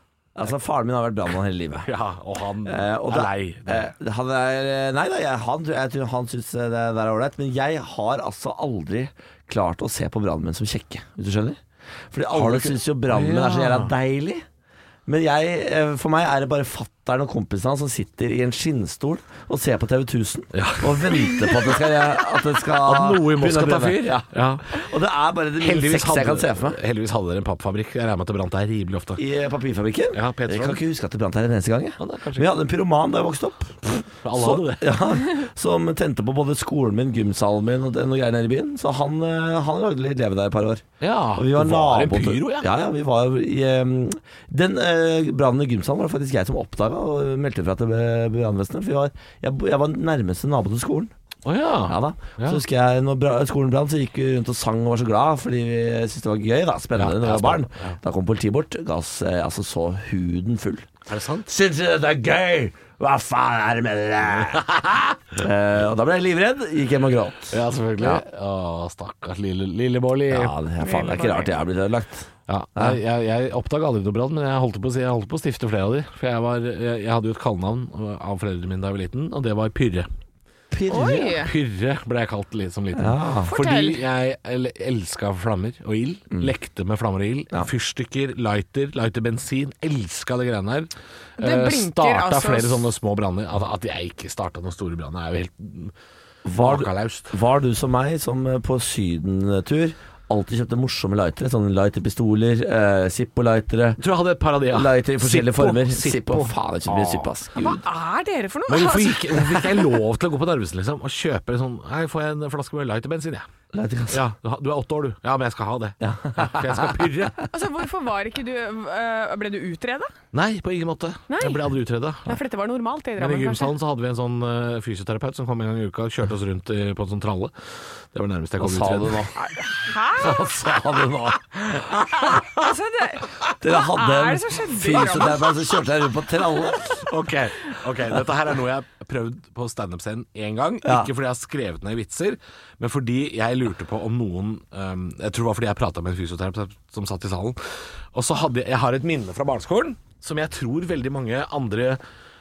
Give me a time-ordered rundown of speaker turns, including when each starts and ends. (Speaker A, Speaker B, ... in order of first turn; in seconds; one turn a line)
Speaker A: 0.3-1.9
Speaker B: 1.8-3.9
Speaker A: 2.6-11.6
Speaker A: 12.1-14.4
Speaker B: 12.3-13.9
Speaker A: 15.1-26.8
Speaker B: 20.5-21.8
Speaker B: 22.8-24.8
Speaker B: 25.6-29.2
Speaker A: 29.2-51.1
Speaker B: 30.1-30.8
Speaker B: 32.0-32.5
Speaker B: 34.2-35.0
Speaker B: 41.0-42.7
Speaker B: 51.4-52.6
Speaker A: 51.9-60.9
Speaker B: 57.0-58.0
Speaker B: 61.1-61.5
Speaker A: 61.5-64.6
Speaker B: 64.5-65.3
Speaker A: 65.3-68.2
Speaker B: 67.5-70.5
Speaker A: 70.3-73.0
Speaker C: 70.8-71.6
Speaker B: 72.5-80.1
Speaker A: 80.7-81.5
Speaker C: 80.9-81.5
Speaker B: 81.3-95.9
Speaker A: 83.0-83.5
Speaker C: 83.4-84.0
Speaker C: 91.4-92.9
Speaker A: 96.4-104.0
Speaker B: 96.6-97.3
Speaker B: 104.0-107.3
Speaker A: 104.7-107.8
Speaker C: 107.6-110.0
Speaker B: 108.7-113.5
Speaker A: 113.7-114.2
Speaker B: 114.1-117.4
Speaker A: 116.0-117.4
Speaker C: 117.5-120.1
Speaker B: 120.3-122.4
Speaker C: 121.3-121.7
Speaker C: 122.2-123.7
Speaker B: 123.2-129.3
Speaker A: 128.6-129.3
Speaker C: 129.4-130.4
Speaker A: 130.2-132.5
Speaker C: 132.2-135.7
Speaker A: 133.6-136.9
Speaker B: 136.8-152.0
Speaker A: 140.8-141.1